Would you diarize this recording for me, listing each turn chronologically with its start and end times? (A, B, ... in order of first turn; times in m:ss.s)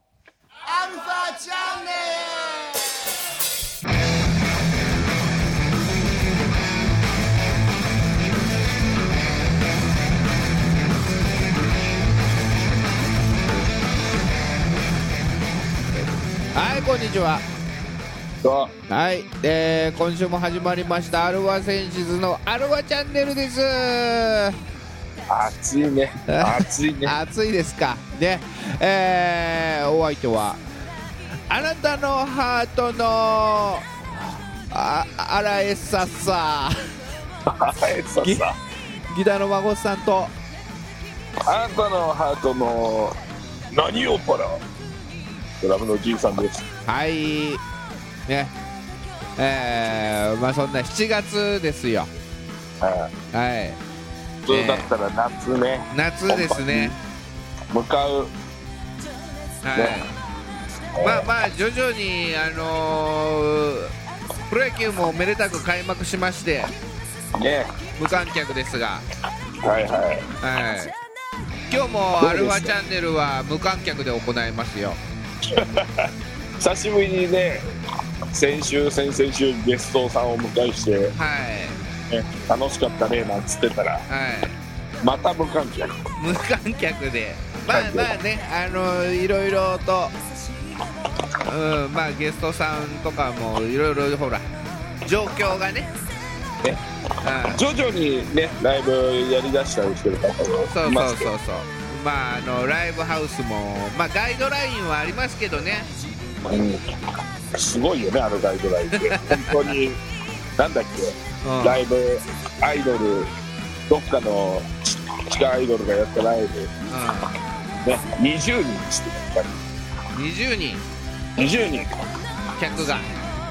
0:00.6-0:02.9 A
0:16.5-0:17.4 B
0:18.4-0:18.7 C
0:18.9-0:24.6 B
0:25.3-0:27.2 C
0:26.3-0:30.6 B
0:31.5-0:33.9 B
0:34.7-0:36.8 B
0:37.4-0:38.5 C
0:39.1-0:40.3 B
0:41.4-0:43.2 C
0:43.7-0:44.6 C
0:45.6-0:46.7 C
0:46.9-0:47.6 B
0:48.3-0:48.5 B
0:49.4-0:52.1 B
0:52.8-0:53.1 C
0:53.3-0:53.8 B
0:54.4-0:57.0 C
0:54.5-0:54.9 B
0:55.9-0:57.0 B
0:57.7-0:58.3 C
0:59.6-1:00.1 B
0:59.7-1:00.0 C
1:01.0-1:01.3 C
1:01.0-1:03.9 B
1:04.5-1:06.7 B
1:07.4-1:07.7 C
1:08.0-1:09.0 B
1:09.6-1:10.3 C
1:10.4-1:10.9 B
1:11.7-1:15.0 B
1:12.2-1:12.7 C
1:15.4-1:17.6 C
1:18.3-1:21.1 C
1:21.2-1:21.8 B
1:22.1-1:24.0 C
1:24.1-1:24.6 B
1:25.0-1:26.0 C
1:26.2-1:30.1 B
1:27.7-1:28.1 C
1:31.4-1:34.4 B
1:35.0-1:35.9 B
1:37.2-1:37.6 B
1:37.5-1:41.3 C
1:40.7-1:45.9 B
1:46.5-1:46.8 C
1:47.6-1:50.0 C
1:49.0-1:49.7 B
1:50.6-1:53.3 C
1:51.4-1:51.8 B
1:53.9-1:56.7 C
1:56.9-1:57.3 B
1:57.8-1:59.6 C
2:00.1-2:00.8 B
2:01.4-2:01.9 C
2:02.6-2:03.1 B